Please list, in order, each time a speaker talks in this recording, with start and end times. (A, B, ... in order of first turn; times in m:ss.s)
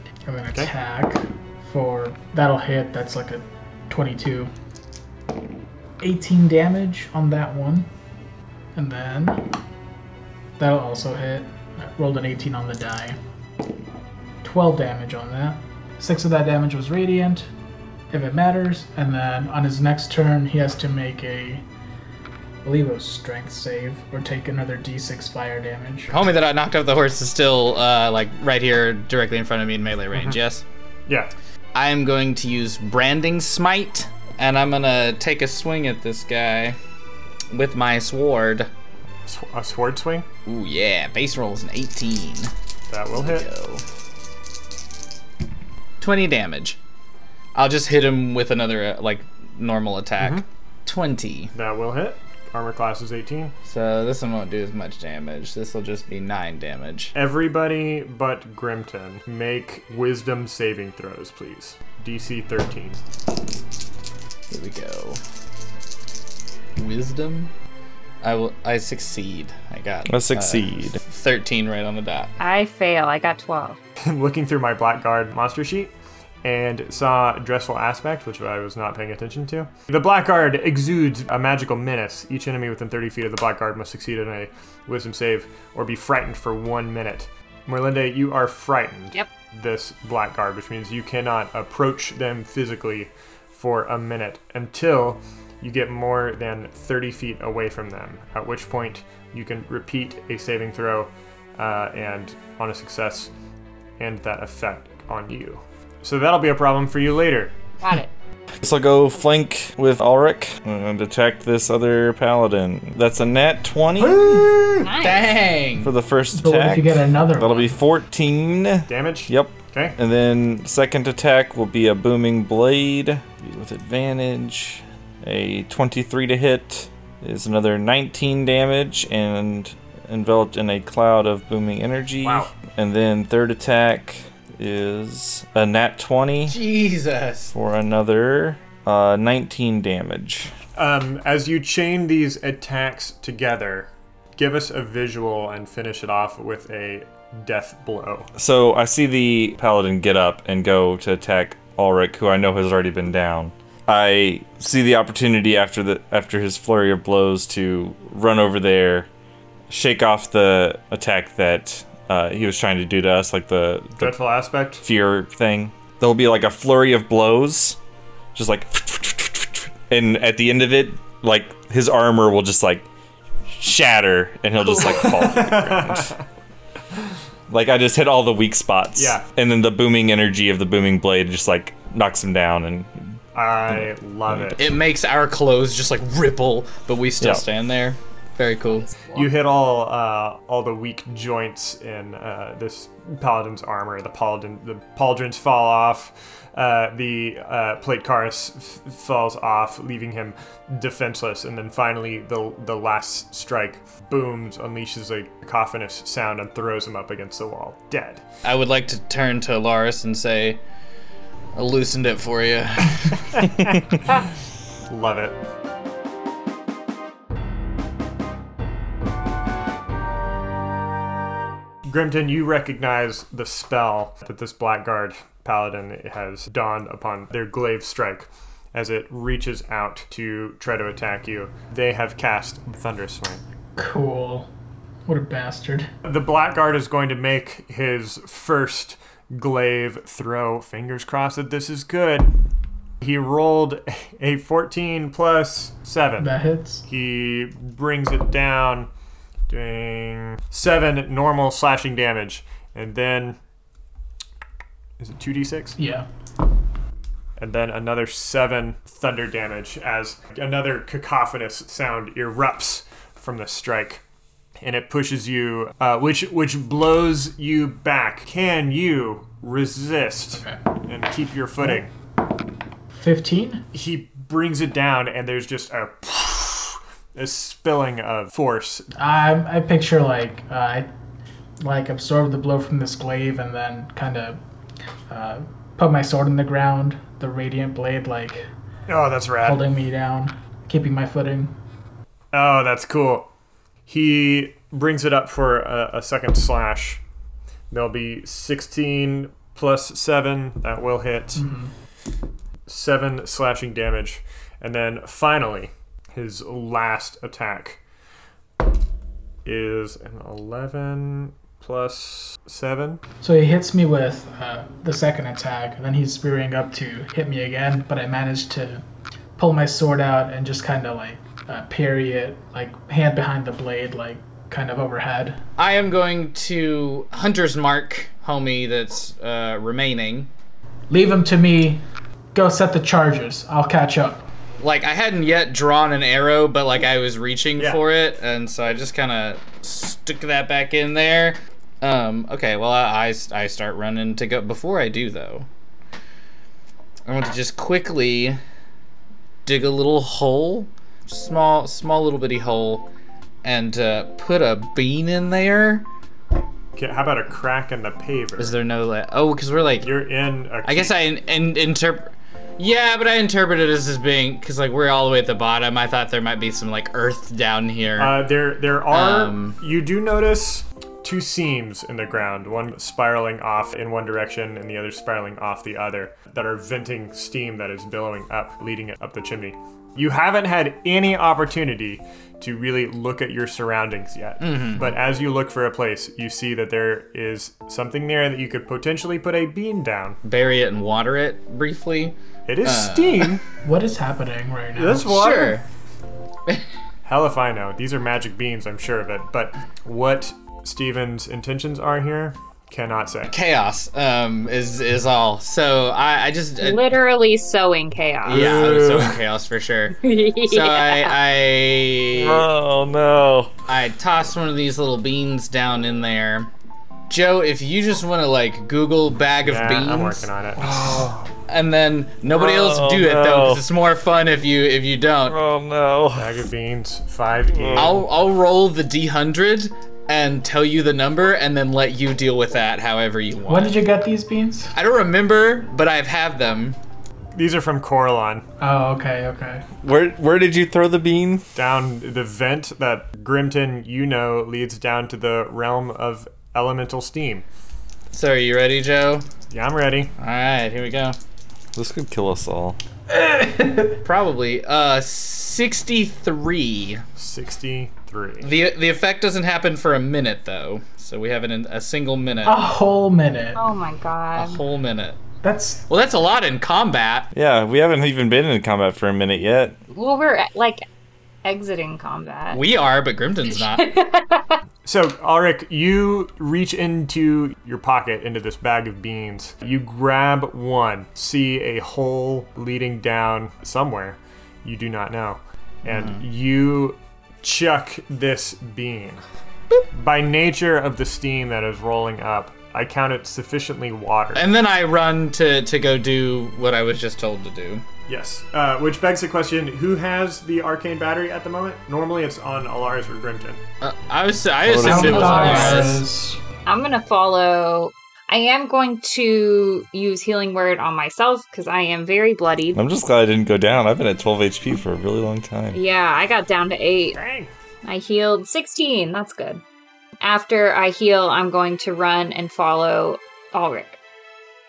0:00.2-0:04.5 A
0:06.0-0:07.9 A
0:08.7-0:09.5 A
0:10.6-0:13.2 A
0:14.4-0:17.5 A
0:18.1-0:21.6 A
0:22.6-0:26.1 A
0:26.1-0:30.6 B
0:31.7-0:36.8 B
0:37.5-0:38.7 B
0:39.2-0:40.2 C
0:40.4-0:42.5 B
0:42.9-0:43.4 C
0:43.1-0:43.8 B
0:46.0-0:46.8 B
0:47.6-0:51.5 B
0:50.2-0:50.4 C
0:51.5-0:53.6 C
0:53.6-0:57.1 B
0:57.1-1:03.0 C
1:04.5-1:05.2 B
1:06.8-1:07.5 B
1:08.2-1:12.3 B
1:10.1-1:11.0 D
1:12.4-1:13.8 E
1:14.0-1:15.9 C
1:16.4-1:43.3 C
1:44.0-1:47.5 C
1:47.8-1:48.1 E
1:48.6-1:54.6 D
1:54.0-1:54.9 C
1:54.8-1:55.3 E
1:55.0-1:55.9 B
1:55.8-2:16.6 D
1:56.3-1:57.8 A
1:58.9-2:00.0 C
2:12.2-2:12.5 C
2:16.5-2:17.5 B
2:17.5-2:20.5 D
2:20.8-2:28.3 C
2:28.4-2:39.1 D
2:39.7-2:44.2 D
2:44.0-2:44.8 C
2:44.8-2:47.8 D
2:48.3-2:52.9 D
2:53.5-2:56.2 D
2:54.7-2:56.2 C
2:57.5-3:03.2 D
2:59.0-2:59.2 C
3:03.3-3:04.6 C
3:03.7-3:04.5 D
3:04.6-3:08.9 B
3:08.7-3:09.2 E
3:09.2-3:28.2 C
3:28.4-3:30.6 B
3:31.5-3:33.4 B
3:33.4-3:34.2 C
3:34.9-3:35.4 C
3:41.8-3:53.4 C
3:53.8-3:54.5 A
3:55.1-3:55.9 A
3:56.0-4:02.3 C
4:03.0-4:06.3 C
4:06.2-4:06.8 A
4:06.8-4:08.9 C
4:09.5-4:13.4 C
4:15.0-4:15.8 C
4:15.8-4:16.1 A
4:17.4-4:24.0 C
4:24.6-4:31.9 C
4:30.3-4:30.6 A
4:32.9-4:33.6 A
4:33.7-4:38.8 C
4:39.0-4:40.9 A
4:41.6-4:44.4 A
4:45.1-4:48.5 A
4:48.9-4:49.6 C
4:49.4-4:51.6 A
4:52.3-4:53.3 C
4:53.9-4:57.0 C
4:57.7-5:01.4 C
5:01.4-5:01.7 A
5:02.7-5:07.8 C
5:09.4-5:13.0 C
5:13.2-5:18.8 A
5:19.4-5:25.4 A
5:25.6-5:30.3 B
5:30.9-5:31.8 A
5:32.4-5:34.2 A
5:34.6-5:45.5 B
5:37.6-5:37.8 C
5:47.1-5:48.4 B
5:49.4-5:52.9 B
5:53.4-5:55.9 B
5:56.8-5:58.6 C
5:58.4-6:00.0 B
5:59.8-6:01.0 C
6:00.6-6:08.2 B
6:08.0-6:30.2 C
6:08.9-6:09.6 B
6:24.4-6:24.9 B
6:30.2-6:33.4 B
6:32.5-6:33.4 C
6:33.6-6:35.1 A
6:34.8-6:35.6 C
6:35.0-6:35.6 B
6:37.0-6:43.3 C
6:43.3-6:46.8 B
6:46.6-6:48.6 E
6:48.2-6:52.5 B
6:48.3-6:49.2 C
6:50.0-6:51.2 E
6:52.1-6:53.5 D
6:53.7-6:56.5 B
6:57.1-7:00.3 B
6:59.4-7:00.8 C
7:00.6-7:01.3 D
7:01.5-7:05.4 B
7:02.3-7:03.6 D
7:05.2-7:06.4 D
7:06.2-7:08.0 C
7:07.5-7:08.0 D
7:07.8-7:13.8 B
7:13.5-7:14.7 A
7:14.8-7:16.8 B
7:17.4-7:18.4 C
7:18.6-7:19.6 A
7:19.8-7:21.4 D
7:21.5-7:27.4 C
7:28.1-7:29.2 B
7:29.5-7:30.1 C
7:30.2-7:31.2 B
7:31.8-7:32.8 D
7:33.1-7:34.0 A
7:34.0-7:37.0 B
7:37.2-7:38.5 C
7:38.4-7:42.6 B
7:42.4-7:43.6 A
7:43.6-7:44.6 E
7:44.4-7:45.2 B
7:45.4-7:45.8 A
7:45.9-7:47.3 B
7:47.3-7:49.8 D
7:49.9-7:50.8 E
7:51.4-7:52.6 E
7:52.5-7:53.8 B
7:53.5-7:54.6 E
7:54.8-8:09.2 C
8:05.9-8:06.2 B
8:09.9-8:14.5 C
8:14.4-8:17.8 B
8:18.1-8:23.6 C
8:23.8-8:26.0 B
8:24.6-8:25.9 D
8:24.8-8:26.4 A
8:25.1-8:26.0 C
8:26.6-8:32.8 E
8:32.7-8:35.8 D
8:35.7-8:37.2 E
8:37.1-8:37.5 C
8:37.8-8:39.6 E
8:40.2-8:44.0 E